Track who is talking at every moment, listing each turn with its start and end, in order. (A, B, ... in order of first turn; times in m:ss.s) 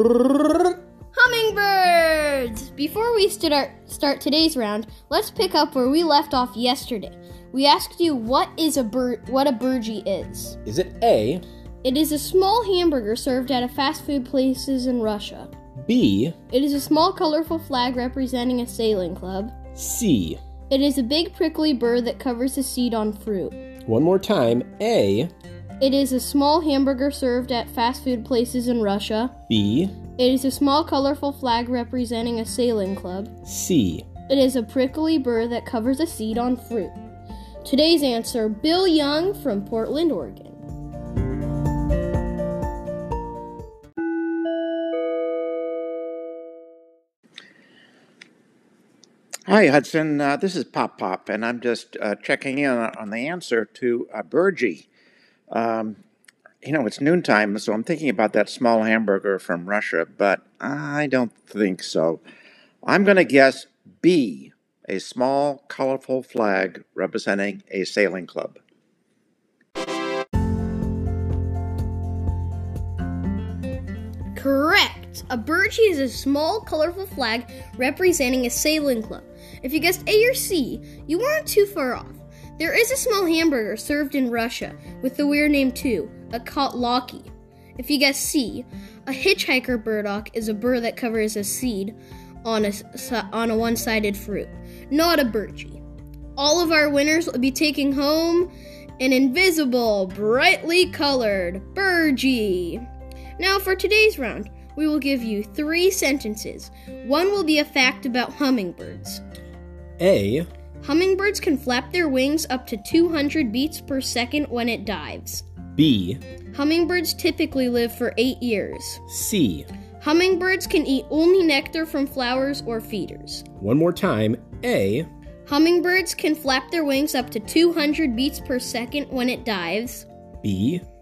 0:01.1-0:10.6 A
0:10.6-0:11.4 B
0:11.8-0:15.5 A
0:15.8-0:16.4 B
0:16.5-0:19.6 A
0:19.7-0:20.4 B
0:20.7-0:23.6 A
0:23.9-0:25.3 B
0:25.8-0:29.4 A
0:29.5-0:29.9 B
0:30.2-0:33.3 A
0:33.4-0:34.0 B
0:34.3-0:37.0 A
0:37.6-0:40.6 A
0:49.5-0:54.9 C
0:55.5-0:56.0 C
0:56.6-1:02.2 C
1:02.8-1:08.6 C
1:14.3-1:35.8 A
1:36.4-1:42.8 A
1:43.4-1:49.2 A
1:50.0-1:50.5 B
1:50.8-1:55.4 A
1:55.8-1:56.2 B
1:56.5-1:59.0 A
1:59.1-1:59.7 B
2:00.0-2:03.4 A
2:03.6-2:05.1 B
2:05.4-2:10.1 A
2:10.4-2:10.8 B